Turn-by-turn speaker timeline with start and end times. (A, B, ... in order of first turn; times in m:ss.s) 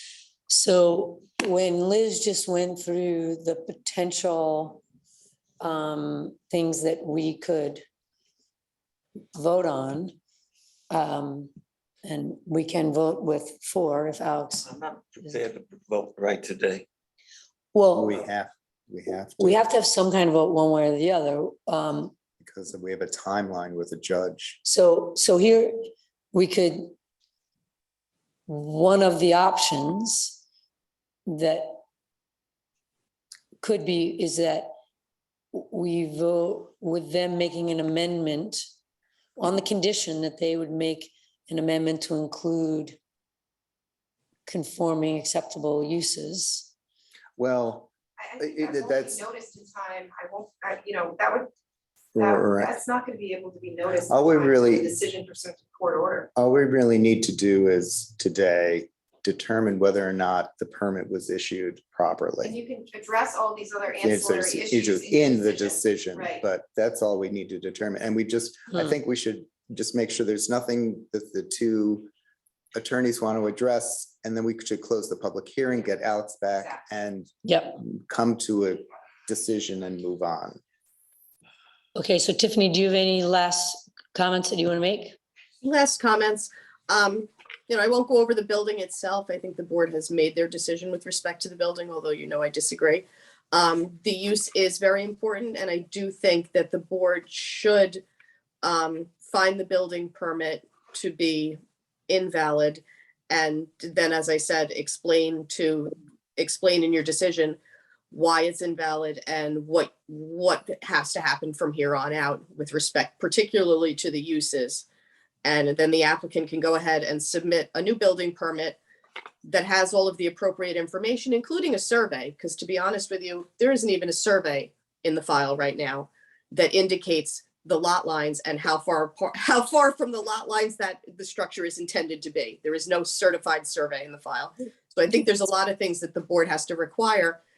0:00.5-0:04.8 A
0:05.6-0:07.8 A
0:09.3-0:10.2 A
0:10.9-0:11.5 A
0:12.0-0:14.7 A
0:14.6-0:16.9 B
0:17.7-0:18.2 A
0:18.0-0:19.6 C
0:19.4-0:22.1 A
0:22.4-0:24.6 C
0:24.6-0:25.8 A
0:26.3-0:26.9 A
0:28.5-0:30.4 A
0:31.3-0:31.8 A
0:33.6-0:34.7 A
0:35.5-0:38.6 A
0:39.4-0:43.0 A
0:44.5-0:46.7 A
0:47.4-0:49.2 C
0:48.2-0:51.5 D
0:52.2-0:52.7 C
0:52.2-0:56.3 D
0:54.1-0:54.9 C
0:56.4-1:02.6 C
1:02.4-1:06.5 D
1:04.0-1:12.1 C
1:12.8-1:20.6 C
1:16.5-1:16.8 D
1:17.4-1:17.8 A
1:22.0-1:25.2 A
1:25.6-1:38.0 E
1:38.6-1:47.6 E
1:48.1-1:54.8 E
1:55.4-1:58.8 E
1:59.4-2:17.4 E